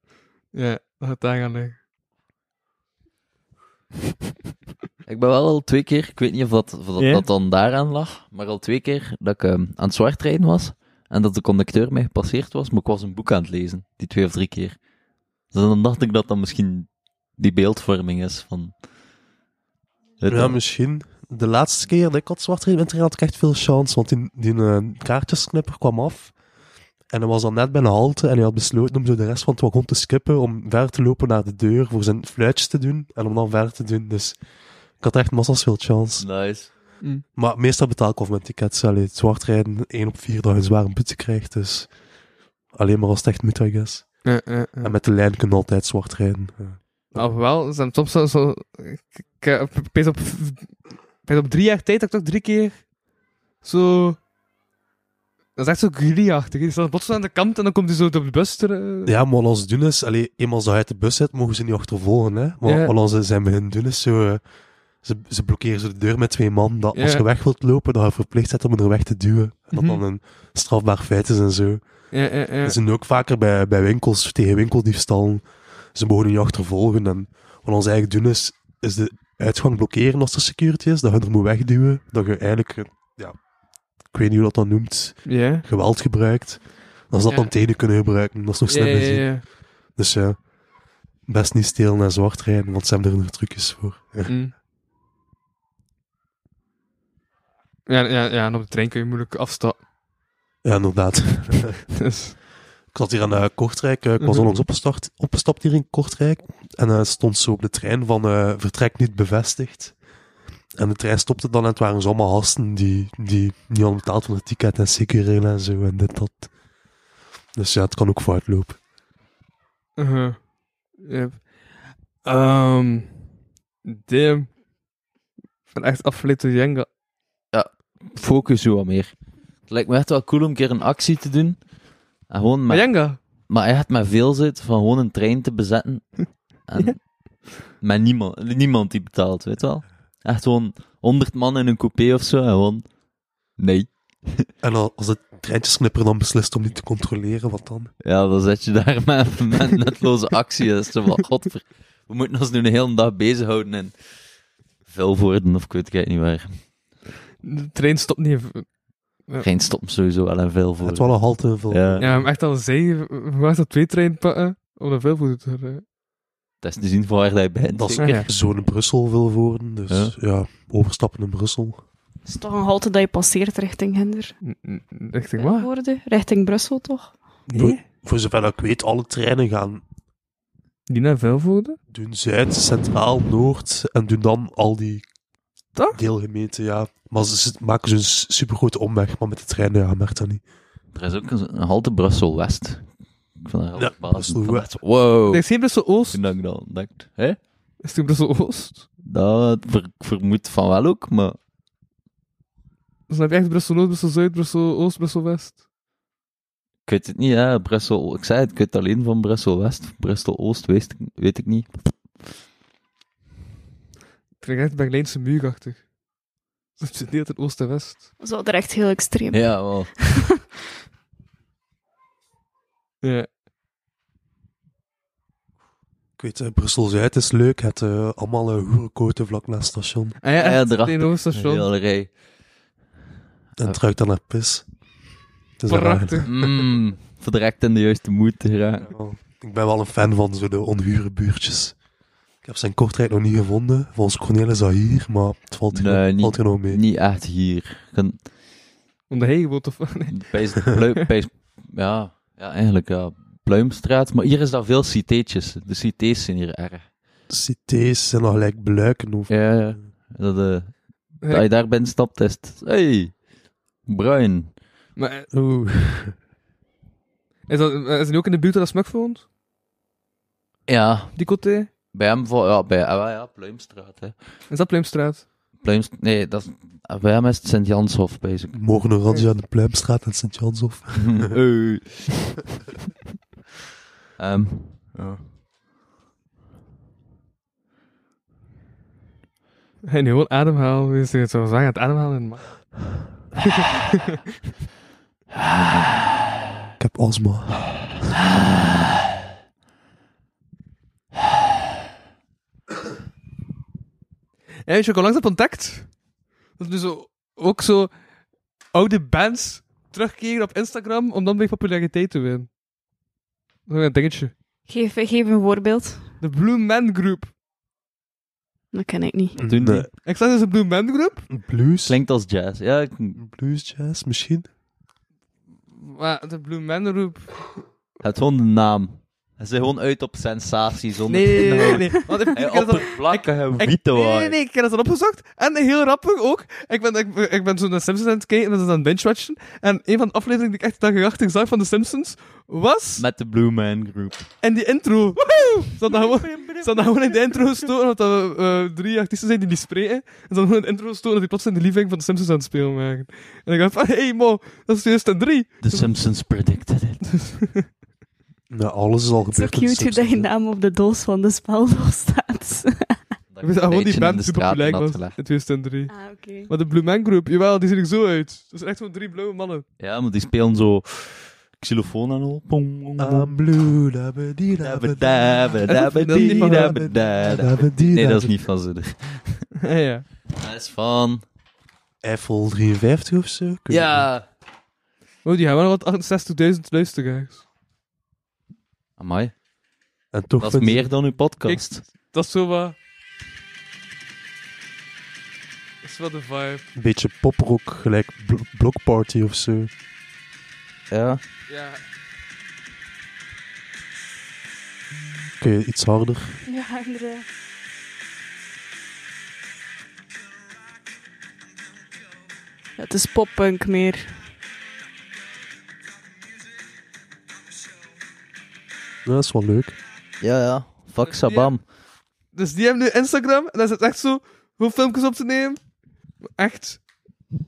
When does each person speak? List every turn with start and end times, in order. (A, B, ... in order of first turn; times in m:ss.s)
0:00.5-0:01.8 A
0:05.0-0:14.8 B
0:07.0-0:07.3 A
0:15.5-0:18.7 B
0:20.2-0:20.6 B
0:20.3-0:26.3 C
0:27.1-0:34.4 C
0:35.0-0:36.3 C
0:36.2-0:36.7 B
0:37.3-0:41.9 C
0:42.7-0:44.3 C
0:44.2-0:44.9 A
0:44.8-0:47.3 C
0:47.1-0:52.9 A
0:53.6-0:54.2 A
0:55.6-0:59.1 A
0:59.0-1:04.4 C
1:02.6-1:02.9 A
1:05.0-1:23.4 C
1:06.9-1:07.2 A
1:09.7-1:10.0 A
1:12.1-1:12.8 A
1:24.0-1:30.5 C
1:25.2-1:25.6 A
1:28.7-1:29.4 A
1:31.2-1:34.3 C
1:34.2-1:34.5 A
1:37.9-1:39.8 A
1:40.6-1:41.8 C
1:41.9-1:42.4 A
1:42.9-1:50.0 C
1:44.2-1:44.5 A
1:50.8-1:56.5 C
1:57.5-1:58.8 C
2:00.0-2:00.4 A
2:00.9-2:01.4 A
2:02.2-2:03.3 A
2:03.8-2:04.5 A
2:05.7-2:06.8 A
2:07.5-2:11.6 B
2:12.3-2:22.8 B
2:12.7-2:13.2 A
2:23.6-2:24.5 B
2:24.6-2:27.9 C
2:28.0-2:33.9 B
2:34.9-2:36.6 B
2:37.4-2:38.7 A
2:39.4-2:42.0 B
2:40.8-2:42.3 C
2:42.0-2:45.8 A
2:46.6-2:48.4 B
2:47.7-2:51.8 C
2:48.0-2:48.3 A
2:52.2-2:54.3 D
2:54.4-2:55.7 A
2:55.4-2:57.1 D
2:57.5-2:57.8 A
2:57.5-2:59.8 C
3:00.9-3:01.8 A
3:01.9-3:05.0 C
3:05.9-3:10.4 C
3:10.9-3:12.9 B
3:13.4-3:15.4 B
3:13.8-3:14.7 C
3:15.3-3:16.2 A
3:16.1-3:17.4 B
3:17.8-3:18.8 A
3:19.0-3:21.4 B
3:23.1-3:25.6 A
3:26.8-3:32.0 B
3:34.4-3:35.9 A
3:36.8-3:38.0 A
3:38.2-3:40.4 D
3:39.3-3:39.9 B
3:43.0-3:43.3 A
3:46.2-3:50.2 C
3:50.2-3:51.7 A
3:50.4-3:52.1 B
3:53.6-3:54.6 C
3:55.6-3:56.3 C
3:55.7-3:56.3 A
3:56.2-3:58.9 B
3:58.8-4:01.8 C
4:02.4-4:06.8 C
4:05.7-4:08.2 B
4:09.1-4:10.8 A
4:10.1-4:16.9 B
4:17.3-4:19.8 C
4:19.3-4:23.2 B
4:23.8-4:24.5 B
4:25.0-4:25.3 A
4:25.3-4:26.2 C
4:27.5-4:29.2 A
4:30.7-4:31.2 B
4:31.1-4:31.7 A
4:31.9-4:34.1 B
4:34.5-4:35.3 A
4:35.6-4:38.7 B
4:38.5-4:41.3 C
4:40.9-4:42.4 B
4:44.2-4:45.2 B
4:49.9-4:54.2 A
4:55.3-4:56.1 B
4:56.8-4:57.8 C
4:58.3-4:58.8 B
5:04.6-5:06.0 A
5:06.6-5:07.9 A
5:08.7-5:12.5 A
5:13.7-5:14.3 A
5:14.7-5:16.0 D
5:16.2-5:17.3 A
5:18.7-5:19.4 D
5:19.4-5:19.9 C
5:19.4-5:19.9 B
5:20.0-5:21.2 A
5:21.3-5:22.0 C
5:21.8-5:23.2 B
5:23.2-5:24.5 C
5:25.7-5:27.3 A
5:28.0-5:34.3 B
5:31.1-5:43.0 A
5:43.0-5:44.2 B
5:44.4-5:55.9 A
5:46.2-5:46.9 B
5:55.6-5:57.0 B
5:57.0-5:57.7 A
5:58.5-6:00.3 C
5:59.3-6:03.0 D
6:03.3-6:05.2 B
6:03.4-6:09.6 A
6:05.9-6:06.5 D
6:09.8-6:13.3 B
6:13.0-6:18.3 C
6:14.6-6:19.4 B
6:15.7-6:16.8 A
6:19.6-6:20.0 A
6:20.3-6:21.2 B
6:22.0-6:24.1 C
6:23.7-6:24.3 B
6:25.2-6:27.4 A
6:29.0-6:29.3 B
6:30.1-6:30.9 C
6:30.4-6:31.8 B
6:31.4-6:32.8 A
6:35.8-6:36.6 A
6:36.7-6:39.7 C
6:40.9-6:41.2 B
6:41.5-6:41.8 A
6:45.4-6:46.4 C
6:46.4-6:47.2 D
6:52.8-6:54.1 D
6:59.0-6:59.8 C
7:00.2-7:01.6 B
7:01.0-7:01.5 A
7:02.3-7:05.6 A
7:06.4-7:06.8 A